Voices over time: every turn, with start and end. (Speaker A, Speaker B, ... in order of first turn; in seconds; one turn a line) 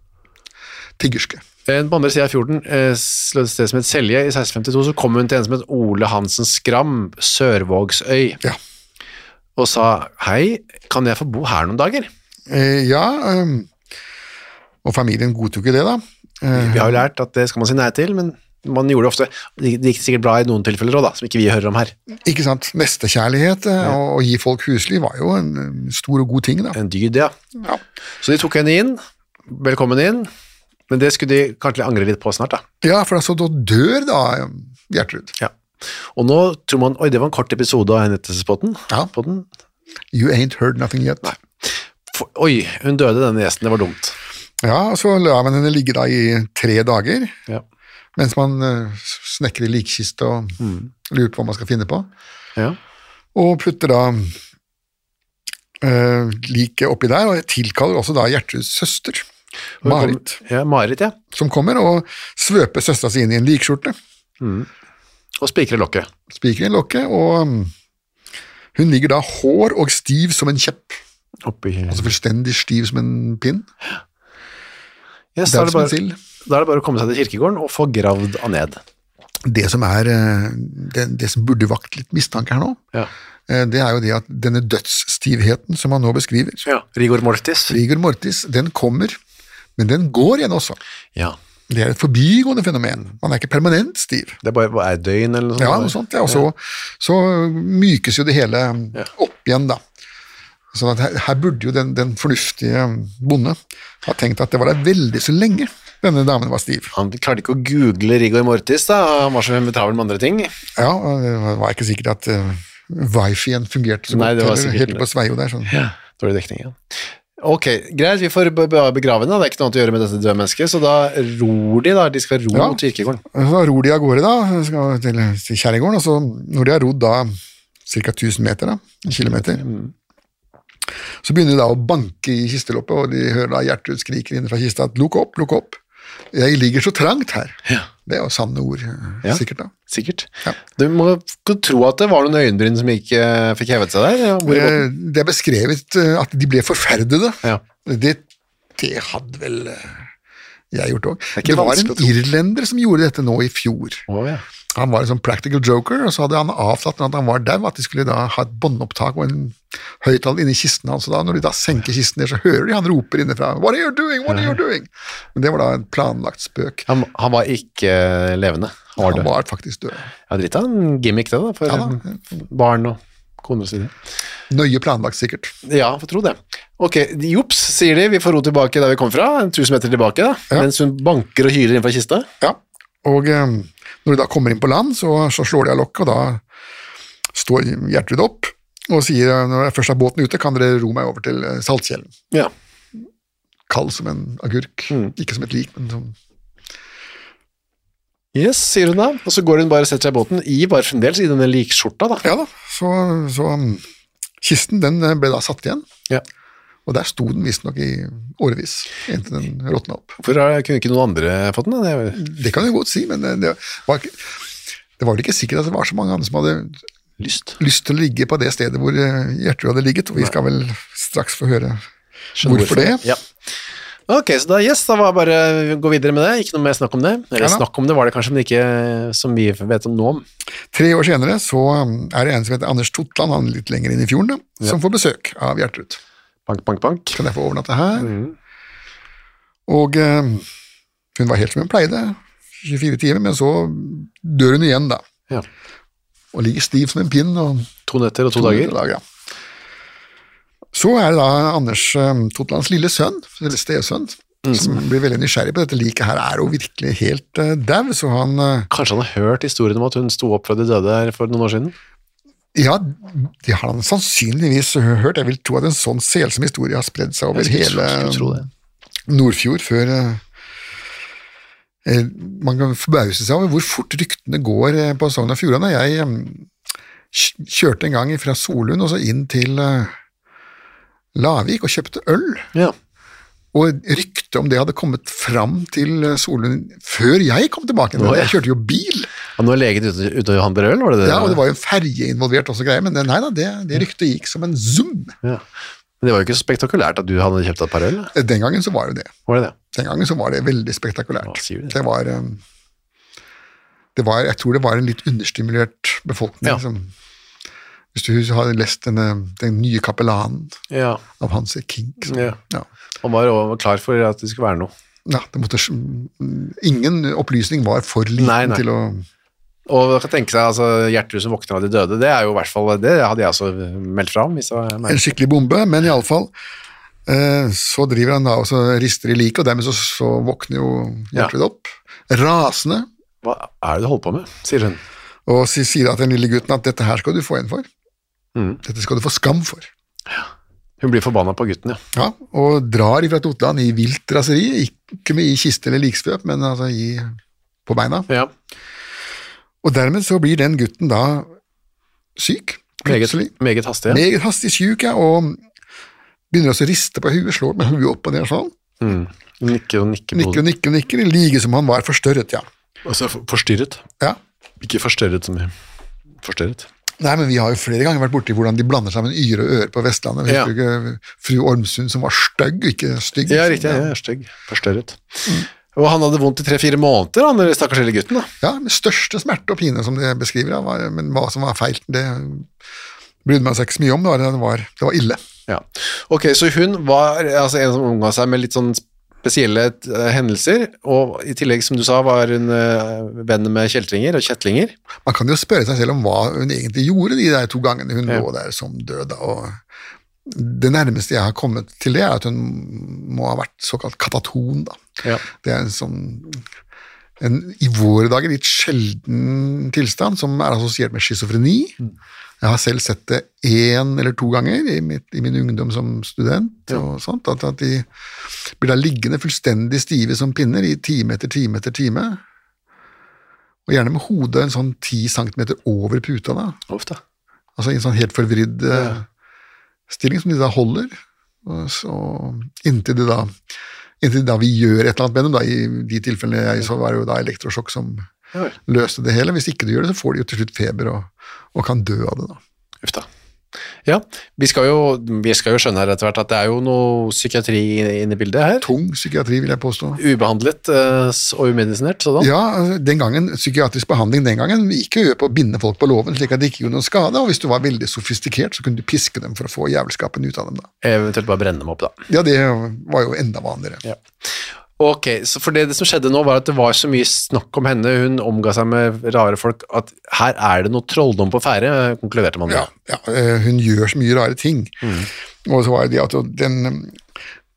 Speaker A: 1.0-1.4
Speaker B: 1.7-8.4
Speaker B: 9.6-12.1
Speaker A: 12.5-13.7
Speaker A: 14.8-17.1
Speaker B: 16.5-21.9
Speaker A: 22.2-26.8
Speaker B: 26.7-27.3
Speaker B: 28.2-30.3
Speaker B: 30.9-32.6
Speaker A: 32.8-35.3
Speaker B: 36.1-39.5
Speaker A: 40.1-41.3
Speaker B: 41.2-44.1
Speaker A: 44.6-47.4
Speaker A: 48.1-52.1
Speaker B: 50.6-50.9
Speaker A: 53.3-54.4
Speaker A: 55.8-59.2
Speaker B: 59.8-61.2
Speaker A: 59.8-60.4
Speaker A: 61.3-64.0
Speaker B: 64.4-64.7
Speaker B: 65.4-66.1
Speaker A: 66.3-67.7
Speaker A: 68.7-71.0
Speaker B: 71.4-72.1
Speaker A: 71.9-73.7
Speaker B: 75.3-78.8
Speaker A: 75.5-76.2
Speaker A: 79.5-82.8
Speaker A: 83.5-86.6
Speaker B: 86.6-87.8
Speaker A: 87.7-89.2
Speaker A: 89.8-90.8
Speaker A: 91.7-94.4
Speaker B: 94.4-96.4
Speaker A: 95.6-99.8
Speaker A: 100.7-106.9
Speaker B: 106.9-110.5
Speaker A: 110.8-115.7
Speaker B: 114.1-115.0
Speaker B: 115.7-116.8
Speaker B: 117.4-123.2
Speaker A: 122.5-122.8
Speaker A: 123.3-127.3
Speaker A: 127.9-129.6
Speaker B: 129.1-129.9
Speaker A: 131.2-135.8
Speaker A: 136.3-139.7
Speaker B: 139.2-144.9
Speaker A: 144.4-148.2
Speaker A: 148.8-150.0
Speaker A: 150.7-154.0
Speaker B: 151.4-152.1
Speaker B: 154.1-154.4
Speaker A: 154.8-166.8
Speaker B: 164.3-164.6
Speaker B: 166.9-169.3
Speaker A: 169.0-170.1
Speaker B: 170.3-173.9
Speaker A: 171.7-172.0
Speaker A: 174.5-175.5
Speaker B: 175.7-182.3
Speaker A: 182.4-186.4
Speaker A: 187.3-192.1
Speaker A: 193.7-196.2
Speaker B: 198.3-202.2
Speaker A: 202.2-203.8
Speaker A: 204.4-205.8
Speaker A: 206.8-210.2
Speaker B: 210.2-212.2
Speaker A: 212.2-214.3
Speaker A: 215.0-216.8
Speaker B: 217.2-217.6
Speaker A: 217.6-221.8
Speaker B: 222.3-223.2
Speaker A: 222.4-223.1
Speaker B: 224.1-230.2
Speaker A: 227.4-227.6
Speaker A: 230.7-236.0
Speaker B: 236.5-237.2
Speaker A: 237.1-238.1
Speaker B: 238.0-238.3
Speaker A: 239.7-240.4
Speaker A: 241.1-245.0
Speaker A: 246.3-247.7
Speaker B: 247.9-248.7
Speaker A: 248.3-249.0
Speaker A: 250.7-258.7
Speaker B: 254.4-254.8
Speaker B: 258.7-261.7
Speaker A: 262.5-268.4
Speaker B: 267.3-268.5
Speaker A: 269.1-270.2
Speaker A: 271.8-276.5
Speaker A: 277.1-279.9
Speaker A: 281.1-282.5
Speaker A: 283.5-289.1
Speaker B: 288.0-288.3
Speaker B: 289.4-291.4
Speaker A: 291.0-295.1
Speaker B: 296.0-298.1
Speaker A: 298.1-299.1
Speaker B: 299.3-299.5
Speaker A: 299.7-302.4
Speaker B: 301.2-301.8
Speaker A: 303.9-306.9
Speaker A: 307.9-310.6
Speaker B: 310.7-311.0
Speaker A: 311.2-312.6
Speaker B: 312.1-312.4
Speaker B: 313.0-314.7
Speaker A: 315.1-319.1
Speaker B: 318.2-318.6
Speaker B: 319.7-325.0
Speaker A: 324.9-326.3
Speaker A: 327.1-332.9
Speaker B: 333.2-334.8
Speaker A: 335.2-337.7
Speaker B: 338.4-338.6
Speaker A: 338.6-339.7
Speaker B: 340.8-341.8
Speaker A: 341.9-347.1
Speaker A: 347.7-348.1
Speaker A: 349.6-351.3
Speaker A: 352.2-353.3
Speaker B: 352.8-354.0
Speaker A: 353.9-355.4
Speaker A: 356.3-358.5
Speaker B: 358.8-360.4
Speaker A: 360.1-362.5
Speaker B: 362.9-363.8
Speaker B: 364.6-365.5
Speaker B: 366.2-366.7
Speaker A: 367.0-373.9
Speaker B: 370.3-370.5
Speaker B: 373.3-378.3
Speaker A: 378.4-382.5
Speaker A: 383.2-385.2
Speaker B: 385.5-394.7
Speaker A: 395.1-399.6
Speaker A: 400.2-404.8
Speaker A: 405.3-406.4
Speaker A: 407.2-411.8
Speaker A: 412.4-417.9
Speaker A: 418.6-422.2
Speaker A: 423.7-426.6
Speaker B: 426.7-427.0
Speaker A: 427.6-429.0
Speaker A: 429.9-433.3
Speaker A: 434.0-438.1
Speaker A: 438.7-442.4
Speaker B: 443.9-448.7
Speaker A: 448.6-450.0
Speaker B: 450.0-452.3
Speaker A: 452.2-460.7
Speaker B: 460.8-461.9
Speaker A: 462.1-463.8
Speaker B: 464.8-472.7
Speaker A: 472.5-474.7
Speaker B: 474.8-475.1
Speaker A: 475.4-477.0